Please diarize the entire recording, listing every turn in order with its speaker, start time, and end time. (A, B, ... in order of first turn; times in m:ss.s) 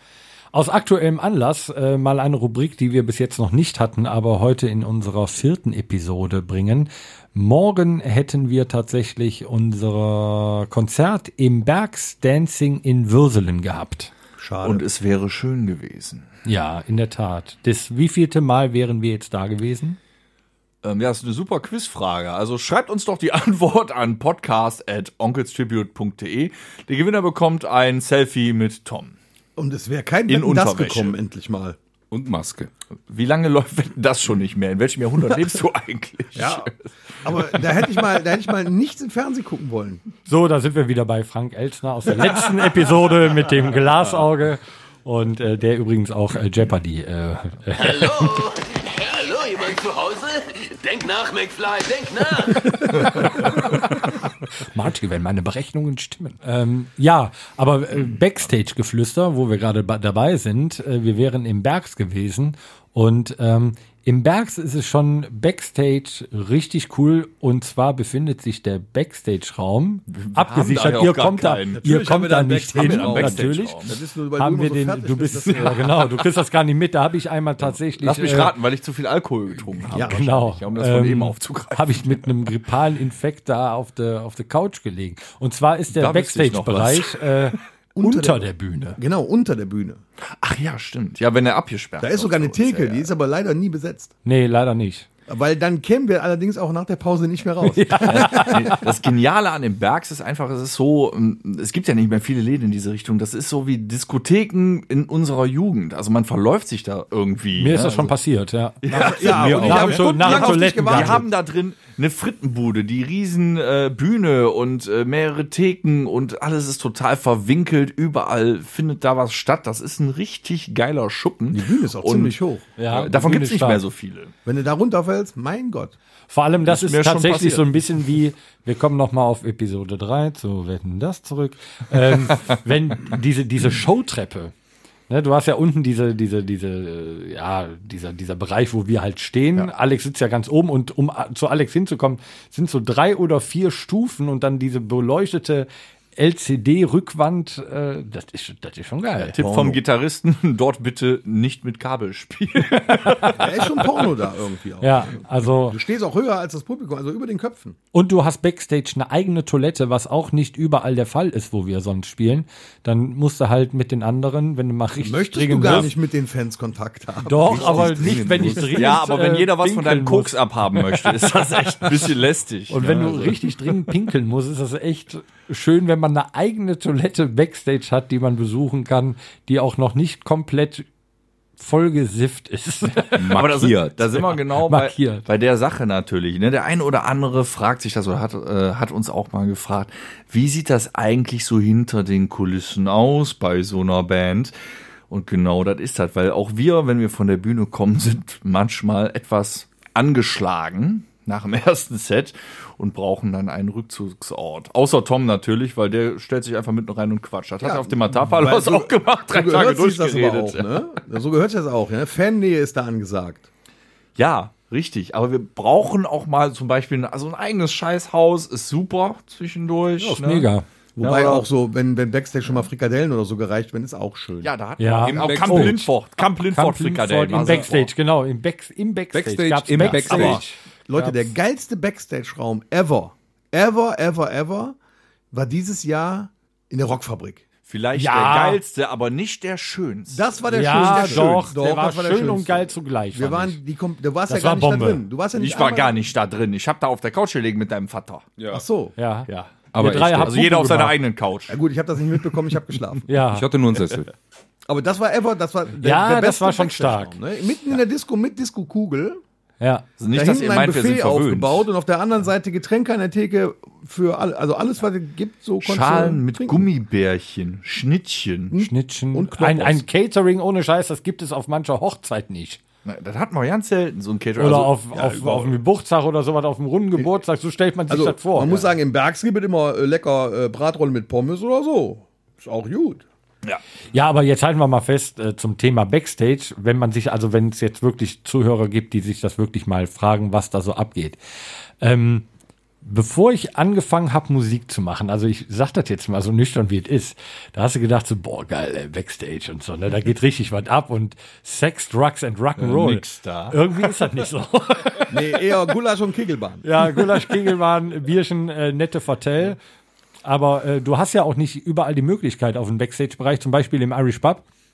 0:00.5-0:14.1 A
0:14.4-0:14.8 B
0:14.6-0:16.3 C
0:16.4-0:20.0 A
0:20.8-0:29.2 C
0:29.6-0:31.8 B
0:30.3-0:31.2 C
0:32.1-0:32.7 D
0:33.1-0:36.7 C
0:36.4-0:36.7 B
0:37.2-0:40.0 B
0:37.3-0:37.9 C
0:40.3-0:48.3 A
0:47.8-0:52.9 E
0:54.5-1:18.5 A
1:10.1-1:11.8 C
1:11.7-1:16.1 B
1:12.8-1:14.0 C
1:18.0-1:22.3 C
1:19.9-1:29.0 A
1:19.9-1:20.2 B
1:25.9-1:27.2 C
1:28.0-1:30.0 B
1:30.4-1:33.1 C
1:32.0-1:34.1 B
1:34.2-1:35.1 A
1:35.3-1:38.8 B
1:37.6-1:38.8 A
1:38.1-1:48.1 C
1:47.6-1:51.2 A
1:48.8-2:02.4 C
1:48.9-1:51.3 B
2:01.5-2:02.6 B
2:02.8-2:03.8 A
2:02.9-2:04.3 C
2:04.4-2:06.0 B
2:06.3-2:14.5 A
2:06.7-2:07.7 C
2:15.1-2:29.4 A
2:29.3-2:33.8 C
2:29.4-2:29.8 B
2:33.0-2:33.4 A
2:33.3-2:37.8 B
2:34.8-2:35.8 A
2:37.9-2:45.9 A
2:45.0-2:48.3 B
2:47.2-2:51.1 A
2:47.4-2:49.0 D
2:48.4-2:53.6 C
2:52.7-3:00.9 A
3:01.6-3:03.4 A
3:03.2-3:04.2 D
3:03.3-3:14.5 C
3:04.6-3:05.2 A
3:15.1-3:30.7 C
3:27.6-3:33.5 B
3:34.2-3:40.5 C
3:40.0-3:40.6 A
3:41.0-3:44.5 B
3:41.0-3:41.4 C
3:44.4-3:47.9 C
3:44.8-3:45.9 A
3:45.1-3:45.9 D
3:46.5-3:51.3 A
3:49.1-3:50.4 D
3:49.8-3:50.4 C
3:50.2-3:54.8 B
3:55.3-3:57.4 B
3:57.7-4:01.5 C
3:58.0-3:58.6 A
4:00.1-4:06.1 B
4:00.5-4:03.6 A
4:04.3-4:05.0 A
4:05.4-4:08.3 C
4:08.4-4:08.6 D
4:08.5-4:09.0 B
4:09.0-4:11.0 A
4:09.3-4:09.5 C
4:09.7-4:10.4 D
4:10.2-4:11.6 C
4:11.5-4:13.1 B
4:13.1-4:13.5 A
4:13.3-4:14.1 D
4:14.7-4:19.2 B
4:15.8-4:17.2 A
4:19.6-4:19.9 A
4:20.0-4:21.7 C
4:20.1-4:26.7 B
4:25.6-4:28.6 C
4:28.5-4:29.8 B
4:28.6-4:32.6 A
4:32.8-4:34.7 C
4:34.4-4:38.7 A
4:34.9-4:35.6 B
4:37.9-4:43.0 B
4:43.9-4:51.2 A
4:51.8-4:52.2 A
4:52.8-5:05.2 A
5:02.6-5:03.6 C
5:05.1-5:06.6 B
5:06.6-5:09.6 A
5:10.2-5:14.4 A